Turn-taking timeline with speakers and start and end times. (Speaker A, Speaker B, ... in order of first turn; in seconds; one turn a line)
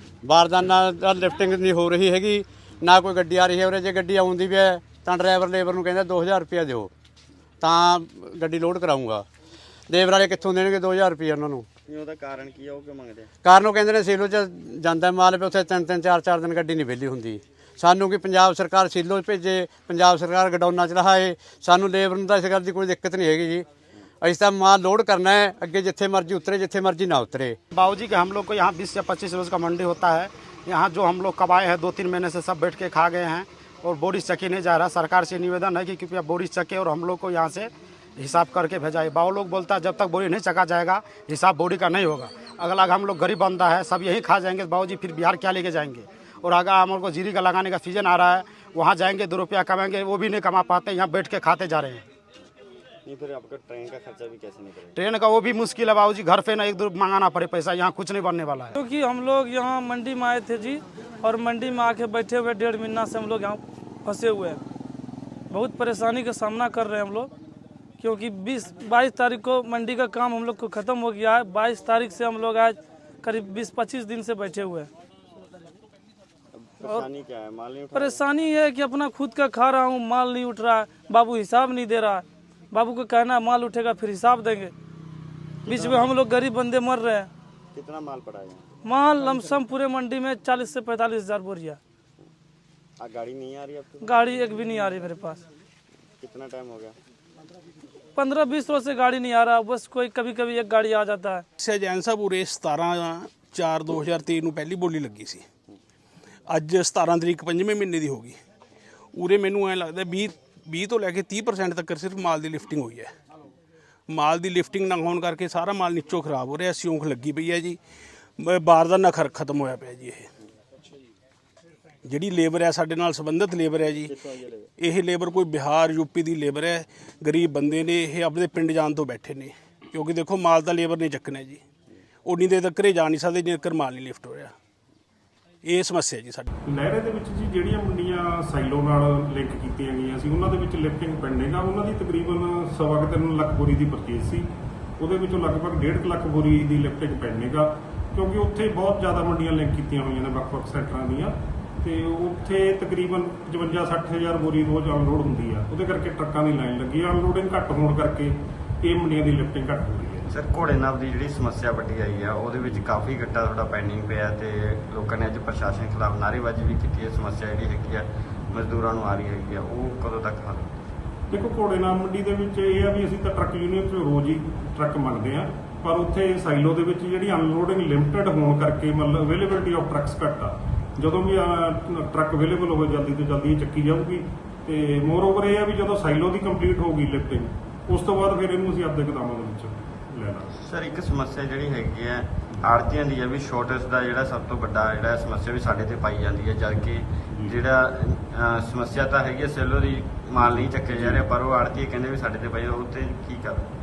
Speaker A: 0.2-6.9
Speaker A: 7.6-9.2
Speaker A: 9.9-11.7
Speaker B: 11.9-13.3
Speaker A: 13.4-23.7
Speaker A: 24.2-27.6
Speaker C: 27.7-52.0
Speaker B: 53.0-54.8
Speaker C: 55.0-58.7
Speaker D: 58.7-64.6
Speaker D: 65.5-67.3
Speaker D: 68.0-74.9
Speaker B: 76.6-78.2
Speaker D: 76.8-77.0
Speaker D: 77.9-84.7
Speaker D: 85.7-87.3
Speaker B: 85.7-86.1
Speaker B: 87.7-88.6
Speaker D: 88.8-91.8
Speaker B: 93.0-94.3
Speaker D: 94.0-95.4
Speaker B: 96.2-97.0
Speaker D: 98.2-101.4
Speaker E: 101.6-105.5
Speaker E: 106.5-108.4
Speaker E: 109.1-113.1
Speaker E: 114.1-117.8
Speaker E: 118.4-120.3
Speaker E: 122.0-124.1
Speaker B: 124.0-124.7
Speaker E: 124.8-131.6
Speaker E: 132.2-134.5
Speaker E: 135.6-136.5
Speaker F: 136.7-160.3
Speaker B: 160.6-162.5
Speaker B: 163.3-168.0
Speaker B: 168.7-170.8
Speaker F: 171.3-190.6
Speaker B: 190.9-192.3
Speaker B: 193.0-197.1
Speaker F: 197.3-197.6
Speaker B: 198.2-200.2
Speaker F: 200.4-201.3
Speaker B: 201.0-203.7